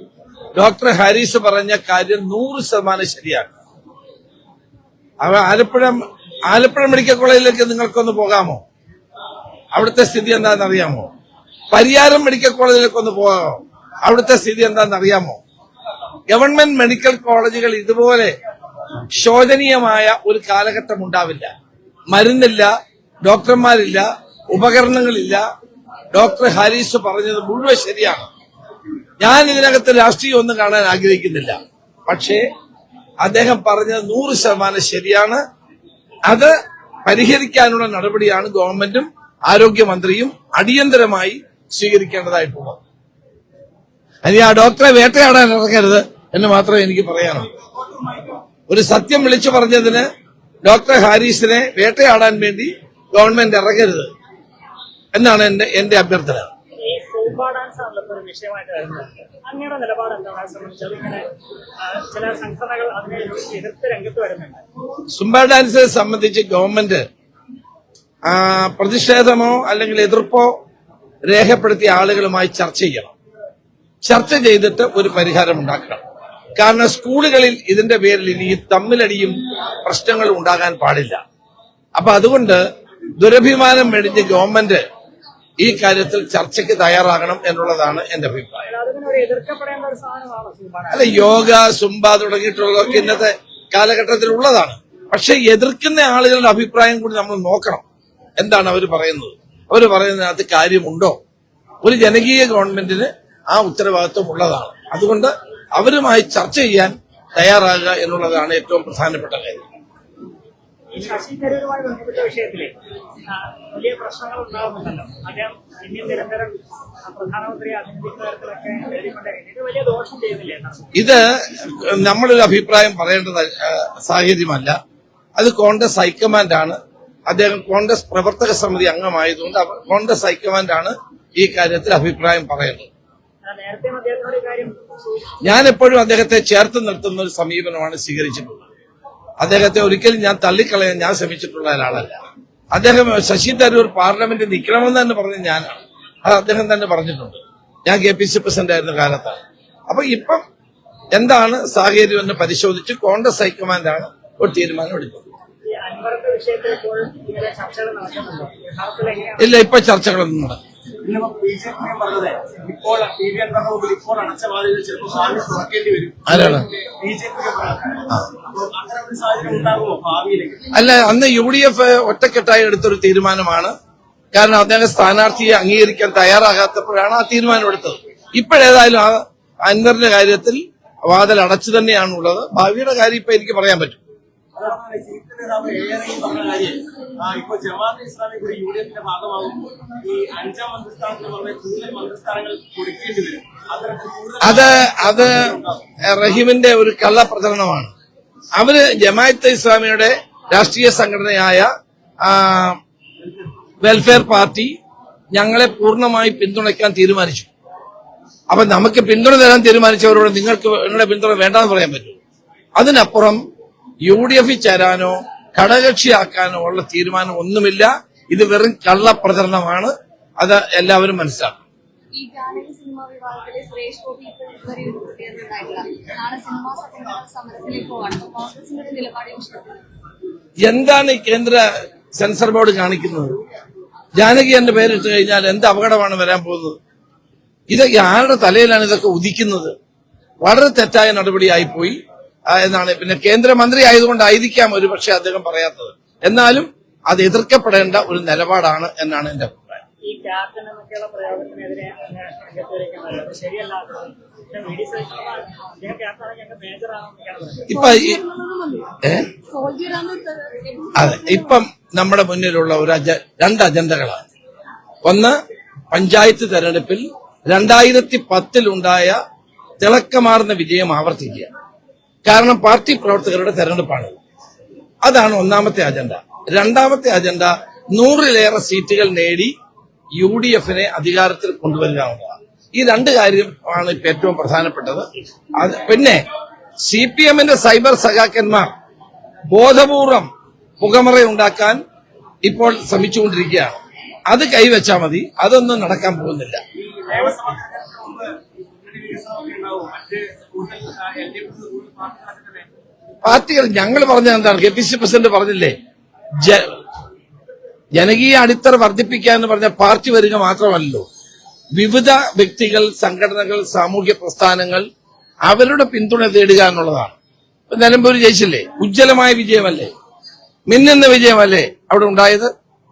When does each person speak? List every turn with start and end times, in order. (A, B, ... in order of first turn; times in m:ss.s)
0:00.6-0:03.6 A
0:05.2-0:08.6 A
0:09.7-0:11.1 A
0:11.7-0:15.4 A
0:16.3-0:18.3 A
0:19.1-0:21.5 A
0:22.1-0:22.7 A
0:23.2-0:25.4 A
0:26.1-0:28.3 A
0:29.2-0:32.4 A
0:33.2-0:35.4 A
0:36.3-0:36.5 A
0:37.1-0:42.8 A
0:44.2-0:47.5 A
0:47.6-0:48.4 B
0:48.7-0:50.1 A
0:50.6-0:54.1 A
0:55.1-0:56.5 A
0:56.8-1:01.3 C
1:01.8-1:04.6 C
1:05.1-1:07.0 A
1:08.3-1:10.6 A
1:11.2-1:13.2 A
1:14.0-1:16.0 A
1:16.6-1:21.2 A
1:22.0-1:22.6 A
1:23.2-1:24.8 A
1:25.6-1:28.6 A
1:28.7-1:31.4 C
1:30.9-1:37.8 A
1:38.4-1:41.2 A
1:41.8-1:49.6 A
1:50.9-1:52.7 C
1:53.3-2:00.9 C
2:01.0-2:04.8 A
2:05.4-2:12.9 A
2:13.4-2:15.4 C
2:15.4-2:18.6 A
2:19.4-2:29.4 A
2:29.9-2:30.4 A
2:31.1-2:35.2 A
2:35.7-2:39.6 C
2:39.4-2:40.6 A
2:41.0-2:50.7 B
2:46.3-2:46.7 A
2:50.7-2:53.7 A
2:54.3-3:04.0 A
3:04.6-3:15.8 B
3:14.4-3:17.9 A
3:18.6-3:21.7 A
3:22.2-3:22.8 A
3:23.8-3:24.7 A
3:25.3-3:27.5 A
3:28.5-3:32.2 A
3:32.8-3:33.4 A
3:34.0-3:41.6 A
3:42.2-3:49.8 D
3:50.6-3:53.4 A
3:54.2-3:56.8 A
3:57.7-3:59.7 A
4:00.4-4:02.0 A
4:02.5-4:09.8 A
4:10.1-4:17.7 C
4:17.7-4:18.2 A
4:17.7-4:21.5 D
4:19.0-4:19.3 A
4:21.0-4:24.3 A
4:25.0-4:25.4 A
4:25.9-4:29.2 A
4:29.8-4:31.5 A
4:32.2-4:34.2 A
4:35.0-4:39.5 A
4:40.2-4:46.2 A
4:46.8-4:48.7 A
4:49.5-4:51.8 A
4:52.4-4:53.8 A
4:54.3-4:56.6 A
4:56.8-5:02.7 B
5:03.2-5:05.8 A
5:06.4-5:06.8 A
5:08.0-5:11.1 A
5:11.7-5:14.9 A
5:15.4-5:17.2 A
5:17.7-5:19.9 A
5:20.7-5:22.5 A